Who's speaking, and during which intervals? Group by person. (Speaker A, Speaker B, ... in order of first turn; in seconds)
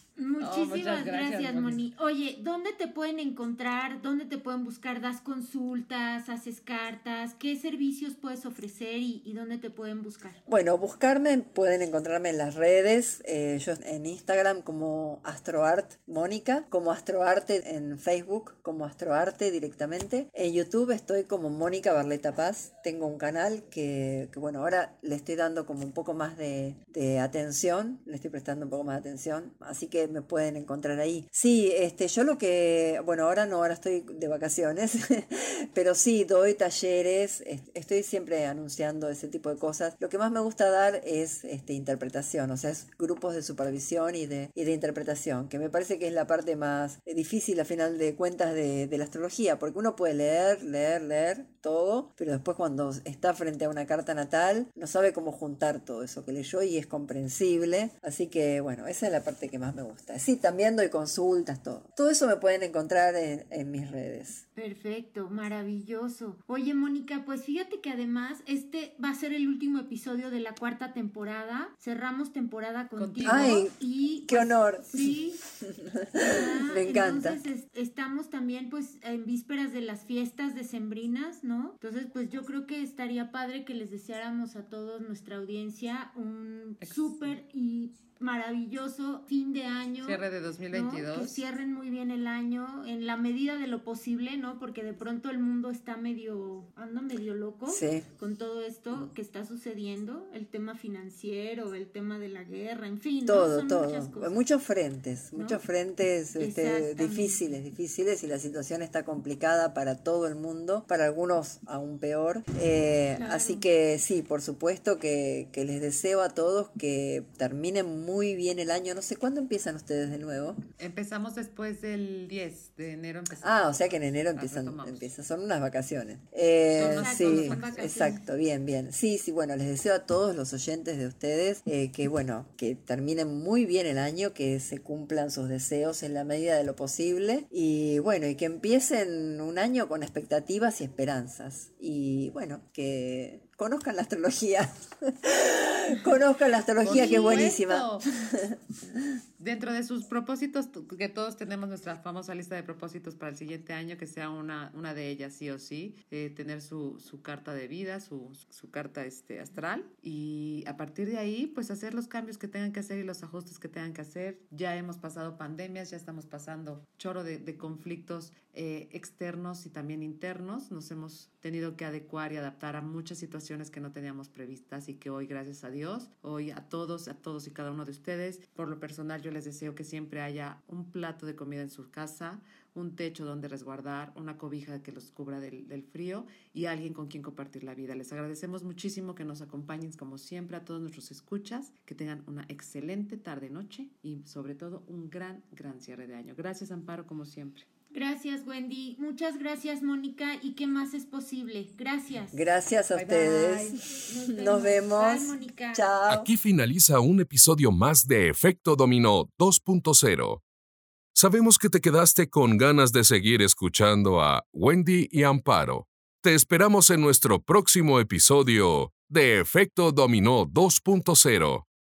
Speaker A: 0.1-10.4, 64.5-75.4, 76.2-104.4, 105.3-105.6, 106.4-107.5, 113.1-113.6, 127.0-128.2, 197.9-202.4, 203.1-205.9
Speaker B: 0.4-1.8, 73.0-73.7, 90.0-91.4, 120.8-125.1, 126.7-127.9, 146.8-148.0, 149.4-197.7, 202.9-203.7
Speaker C: 10.5-64.4, 73.2-77.4, 97.7-98.0, 103.2-120.6, 123.4-149.2, 202.3-206.3
Speaker D: 206.1-210.4, 211.1-221.7